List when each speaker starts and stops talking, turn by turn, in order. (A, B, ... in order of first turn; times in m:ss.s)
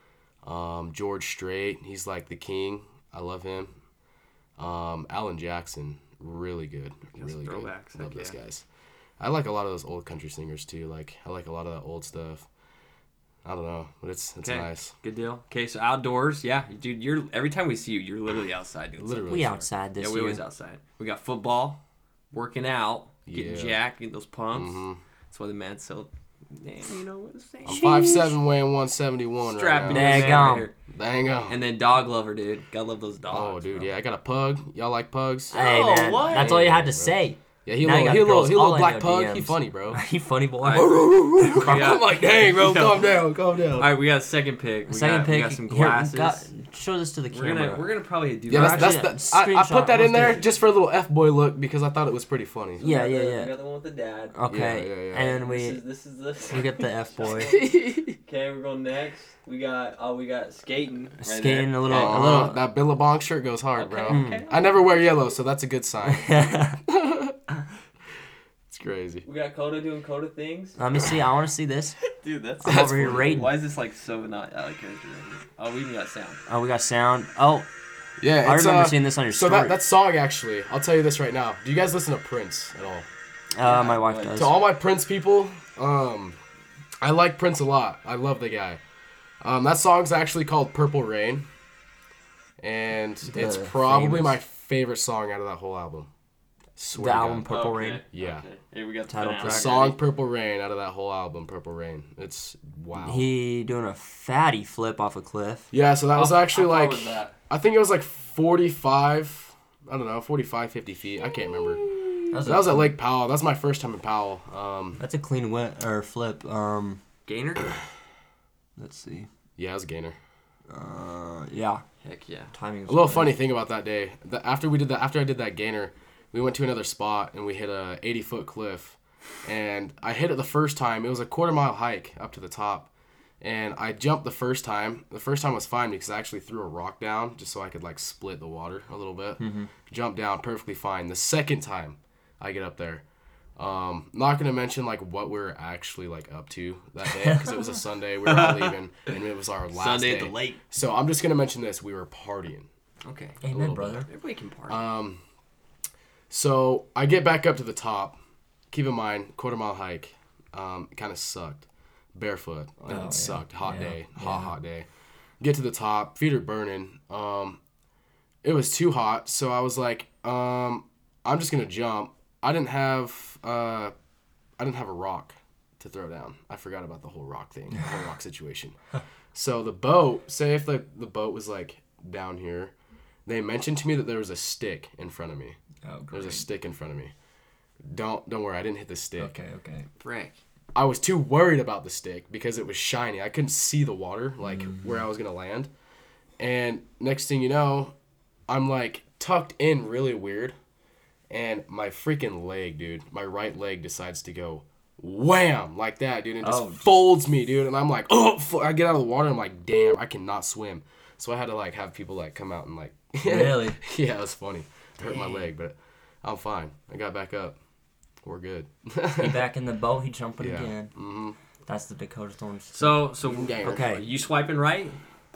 0:00.4-0:03.8 A
0:04.6-0:08.6 A
0:07.2-0:08.4 B
0:09.2-0:12.5 A
0:13.4-0:14.9 A
0:14.4-0:28.0 B
0:19.0-0:19.7 A
0:19.3-0:20.4 C
0:23.2-0:23.8 A
0:24.5-0:25.0 A
0:27.6-0:31.6 A
0:27.7-0:28.4 C
0:29.4-0:30.8 B
0:29.8-0:30.7 C
0:31.5-0:33.9 B
0:33.3-0:35.6 A
0:35.5-0:36.5 B
0:35.5-0:41.9 C
0:36.3-0:40.0 A
0:40.6-0:46.5 B
0:40.7-0:43.9 A
0:44.9-0:47.9 C
0:47.3-0:49.1 B
0:48.5-0:50.4 C
0:48.5-0:52.8 A
0:50.0-0:50.4 B
0:52.8-0:54.4 B
0:52.8-0:53.5 C
0:54.3-0:55.8 C
0:54.5-0:55.3 A
0:55.1-1:02.3 B
0:56.5-0:57.5 C
0:57.3-0:58.2 A
1:01.2-1:02.6 C
1:01.8-1:07.4 A
1:03.8-1:05.2 B
1:04.1-1:04.4 C
1:06.0-1:06.8 C
1:08.7-1:09.2 A
1:09.2-1:10.8 B
1:10.8-1:12.1 C
1:12.2-1:16.4 B
1:12.6-1:13.5 C
1:12.6-1:13.4 A
1:16.5-1:17.7 C
1:18.2-1:23.1 A
1:18.4-1:19.8 C
1:23.5-1:24.6 C
1:23.6-1:24.4 B
1:24.3-1:26.4 A
1:27.0-1:28.8 A
1:29.4-1:31.5 A
1:32.6-1:36.1 A
1:33.2-1:34.4 C
1:36.8-1:37.6 A
1:36.9-1:38.0 C
1:37.5-1:40.0 B
1:38.1-1:38.4 A
1:39.1-1:39.8 C
1:39.4-1:43.3 A
1:42.9-1:45.7 C
1:45.7-1:55.0 A
1:46.1-1:47.4 B
1:52.3-1:52.9 C
1:55.0-1:57.0 C
1:57.2-1:57.8 B
1:58.8-1:59.3 C
1:59.6-2:00.2 A
2:00.7-2:01.8 C
2:02.0-2:02.5 B
2:02.5-2:03.3 C
2:02.9-2:23.0 A
2:19.4-2:19.7 C
2:23.6-2:32.7 A
2:27.0-2:27.8 C
2:28.2-2:28.8 B
2:29.7-2:30.6 B
2:33.0-2:33.4 B
2:33.4-2:34.1 C
2:33.5-2:34.1 A
2:34.0-2:34.8 B
2:34.7-2:35.2 A
2:36.3-2:38.2 A
2:38.7-2:44.9 A
2:42.9-2:44.5 C
2:45.4-2:47.6 A
2:48.4-2:53.9 A
2:54.6-2:58.8 A
2:59.3-3:02.7 A
3:03.2-3:05.6 A
3:05.8-3:06.4 C
3:06.1-3:07.1 A
3:07.8-3:09.3 A
3:09.2-3:09.9 C
3:10.0-3:10.4 B
3:10.7-3:15.7 A
3:14.4-3:15.0 C
3:16.4-3:17.9 A
3:18.5-3:20.5 A
3:21.3-3:37.6 A
3:26.4-3:27.0 C
3:33.2-3:33.8 C
3:35.1-3:35.4 C
3:38.2-3:39.4 A
3:39.2-3:41.0 C
3:40.4-3:41.4 A
3:41.6-3:44.0 C
3:42.7-3:45.0 B
3:43.2-3:43.8 A